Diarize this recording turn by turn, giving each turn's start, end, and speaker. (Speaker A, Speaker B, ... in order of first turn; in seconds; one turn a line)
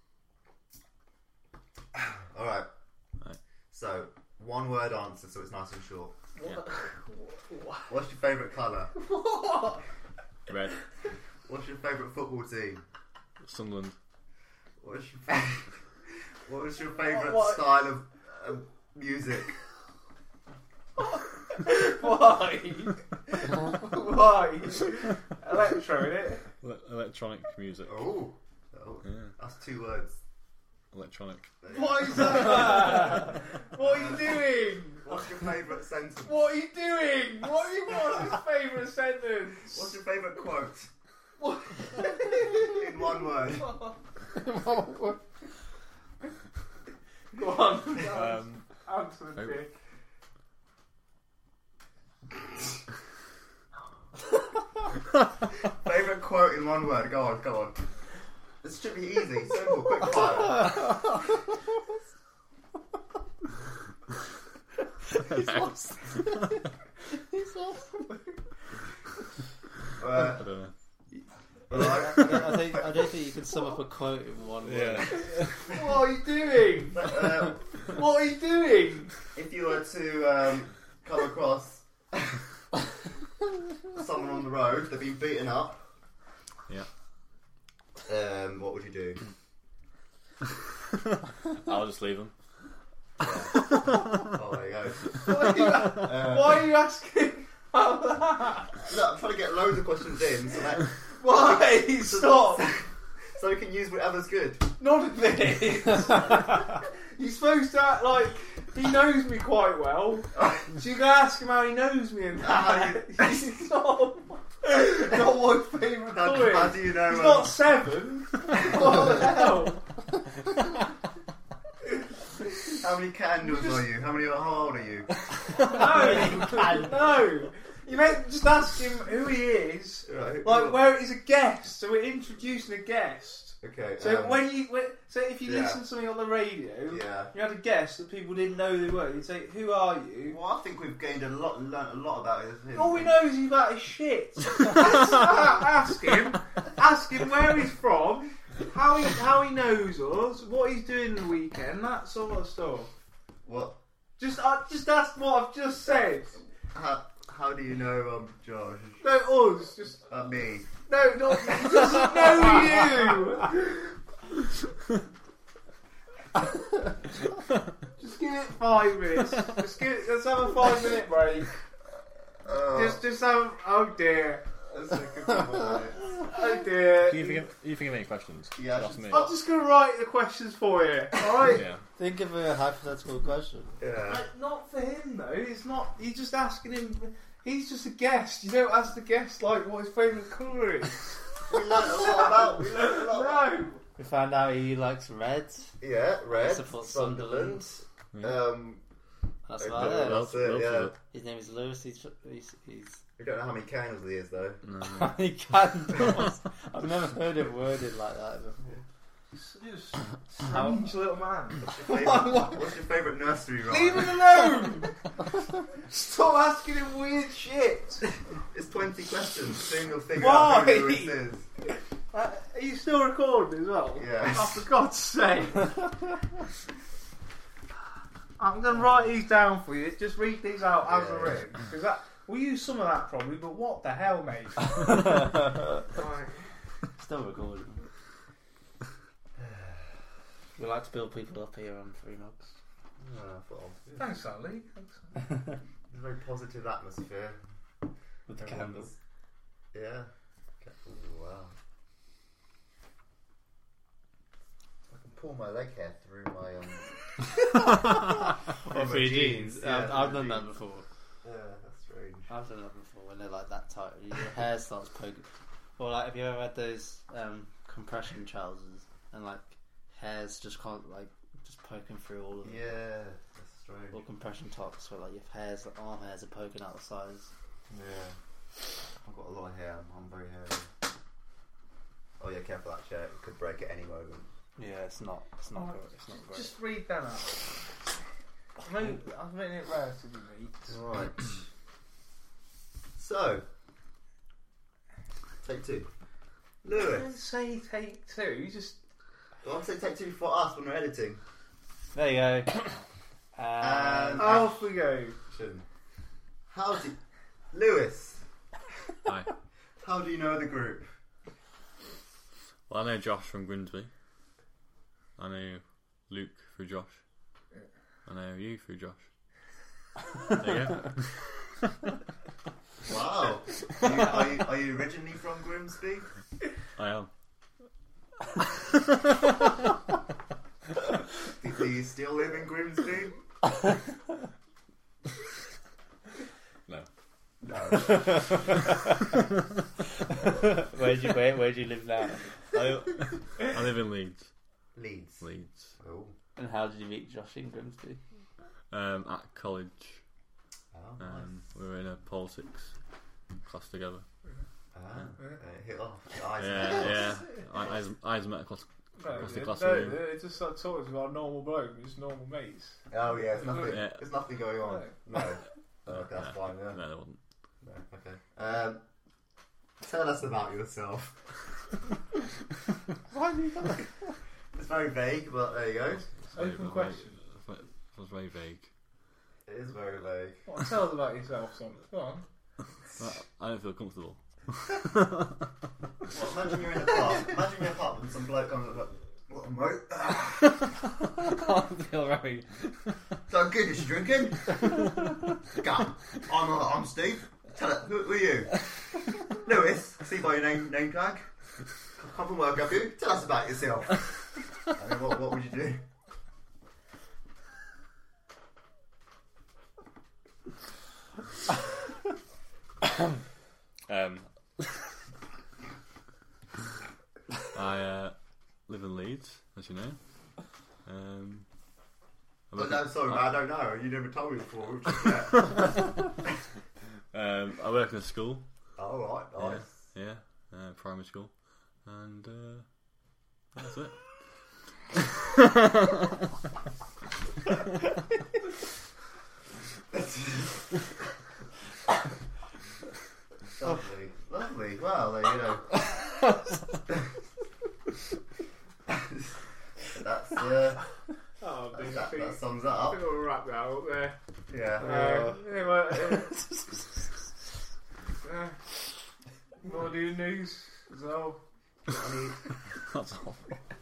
Speaker A: 1.9-2.7
Speaker A: 3.7-6.2
Speaker B: 6.4-7.9
Speaker A: 7.9-8.9
Speaker B: 8.9-9.8
Speaker C: 10.5-10.8
Speaker A: 11.4-12.8
Speaker C: 13.4-13.9
Speaker A: 14.8-15.8
Speaker A: 16.4-19.6
Speaker B: 17.0-17.6
Speaker B: 21.0-26.4
Speaker C: 26.6-28.1
Speaker A: 27.8-30.2
Speaker C: 29.0-29.3
Speaker C: 30.9-31.5
Speaker A: 31.6-32.8
Speaker B: 31.7-35.2
Speaker A: 33.8-34.2
Speaker A: 35.0-36.5
Speaker B: 36.2-40.0
Speaker A: 39.7-40.9
Speaker B: 41.4-42.8
Speaker A: 42.3-43.8
Speaker D: 44.3-45.2
Speaker B: 47.3-49.7
Speaker C: 48.0-48.7
Speaker C: 49.4-49.6
Speaker A: 55.6-57.8
Speaker A: 58.6-60.9
Speaker C: 65.3-65.7
Speaker D: 65.3-66.2
Speaker D: 67.3-67.9
Speaker A: 70.0-70.5
Speaker C: 70.2-70.7
Speaker A: 71.7-73.1
Speaker D: 71.7-75.3
Speaker C: 74.6-75.5
Speaker B: 75.6-79.1
Speaker A: 76.9-77.7
Speaker A: 79.3-82.4
Speaker A: 83.9-85.8
Speaker A: 88.0-89.2
Speaker C: 91.5-92.3
Speaker A: 93.2-96.6
Speaker B: 95.2-98.7
Speaker A: 98.8-104.7
Speaker B: 101.2-102.7
Speaker B: 104.8-119.9
Speaker A: 112.4-113.4
Speaker A: 116.1-117.5
Speaker A: 122.7-125.2
Speaker B: 123.4-123.8
Speaker D: 125.6-126.9
Speaker B: 125.6-140.4
Speaker A: 130.1-130.8
Speaker A: 133.6-134.5
Speaker A: 135.4-135.8
Speaker A: 136.9-137.3
Speaker A: 140.3-143.2
Speaker B: 142.7-152.9
Speaker A: 153.4-153.8
Speaker B: 154.2-156.4
Speaker A: 156.7-159.0
Speaker B: 159.0-160.1
Speaker A: 160.1-160.7
Speaker B: 160.8-163.7
Speaker B: 168.0-171.5
Speaker A: 172.4-173.0
Speaker B: 172.7-174.5
Speaker A: 174.7-176.0
Speaker B: 176.3-177.4
Speaker C: 177.0-179.3
Speaker A: 178.6-179.3
Speaker B: 179.1-181.6
Speaker C: 181.5-181.8
Speaker D: 182.0-183.7
Speaker A: 183.8-184.2
Speaker B: 184.1-193.8
Speaker A: 191.5-193.5
Speaker D: 194.0-195.7
Speaker A: 195.8-198.8
Speaker D: 196.3-197.6
Speaker C: 198.1-198.4
Speaker D: 199.5-200.3
Speaker A: 199.6-200.9
Speaker C: 199.8-200.9
Speaker D: 201.1-203.0
Speaker A: 203.2-204.6
Speaker C: 204.7-205.1
Speaker D: 204.8-208.8
Speaker B: 209.3-212.6
Speaker A: 211.6-214.2
Speaker B: 213.7-215.0
Speaker B: 215.8-218.1
Speaker A: 218.5-221.5
Speaker B: 220.2-221.2
Speaker B: 222.1-225.7
Speaker A: 223.9-224.7
Speaker B: 228.4-234.9
Speaker A: 230.8-231.5
Speaker D: 234.8-235.9
Speaker B: 235.9-236.5
Speaker D: 236.9-237.9
Speaker A: 239.4-239.8
Speaker D: 240.5-242.5
Speaker A: 243.0-244.1
Speaker B: 244.0-245.1
Speaker A: 245.9-247.4
Speaker D: 248.3-248.9
Speaker A: 248.4-248.9
Speaker A: 249.7-251.5
Speaker A: 254.9-256.9
Speaker D: 257.8-260.8
Speaker A: 258.6-260.5
Speaker A: 261.2-262.3
Speaker D: 262.3-272.7
Speaker A: 272.4-274.0
Speaker D: 273.9-277.3
Speaker A: 277.7-278.1
Speaker A: 279.0-280.7
Speaker A: 282.2-284.3
Speaker D: 284.6-286.5
Speaker B: 285.5-287.5
Speaker B: 288.6-290.8
Speaker A: 290.7-291.4
Speaker A: 293.0-293.4
Speaker A: 295.4-295.9
Speaker A: 296.6-297.1
Speaker B: 296.7-298.8
Speaker A: 299.4-301.2
Speaker D: 301.9-302.8
Speaker D: 303.3-304.4
Speaker A: 303.6-304.6
Speaker B: 304.2-305.2
Speaker A: 305.3-305.6
Speaker A: 306.5-307.0
Speaker A: 307.5-308.2
Speaker C: 309.1-309.3
Speaker A: 309.8-310.9
Speaker C: 312.7-313.9
Speaker C: 315.2-317.0
Speaker C: 318.1-319.0
Speaker C: 320.3-321.4
Speaker A: 322.8-326.1
Speaker C: 326.8-327.1
Speaker A: 331.3-333.1
Speaker A: 337.4-338.2
Speaker D: 337.8-339.1
Speaker D: 340.1-342.3
Speaker C: 342.5-344.3
Speaker A: 344.7-345.2
Speaker C: 345.2-345.7
Speaker A: 345.8-346.1
Speaker D: 346.4-348.0
Speaker C: 348.7-350.0
Speaker A: 350.7-351.2
Speaker C: 351.0-352.7
Speaker C: 353.4-354.0
Speaker A: 354.7-357.3
Speaker C: 356.4-360.1
Speaker B: 359.0-362.8
Speaker A: 362.9-366.8
Speaker C: 363.6-364.0
Speaker B: 364.6-364.9
Speaker C: 365.9-367.2
Speaker A: 367.6-368.8
Speaker A: 369.8-371.3
Speaker D: 373.1-373.8
Speaker A: 374.5-376.1
Speaker C: 376.2-378.7
Speaker B: 376.3-377.2
Speaker A: 379.5-380.4
Speaker B: 380.5-382.2
Speaker C: 382.9-385.3
Speaker A: 386.1-390.8
Speaker C: 391.4-392.4
Speaker D: 391.8-392.3
Speaker A: 393.3-394.8
Speaker A: 395.5-398.6
Speaker A: 399.2-401.3
Speaker A: 402.0-405.8
Speaker C: 413.9-414.8
Speaker C: 417.5-418.1
Speaker C: 418.7-420.0
Speaker C: 420.8-421.4
Speaker C: 422.5-423.2
Speaker A: 422.6-425.7
Speaker C: 427.1-428.5
Speaker A: 428.8-429.7
Speaker C: 429.4-432.7
Speaker C: 433.5-434.2
Speaker C: 435.3-435.9
Speaker A: 439.9-440.8
Speaker A: 443.6-446.1
Speaker A: 448.9-450.8
Speaker B: 451.4-454.1
Speaker A: 451.7-453.0
Speaker A: 454.5-455.0
Speaker B: 454.8-456.4
Speaker D: 454.8-456.6
Speaker B: 458.2-458.6
Speaker B: 459.6-461.4
Speaker A: 461.9-462.5
Speaker C: 462.9-463.6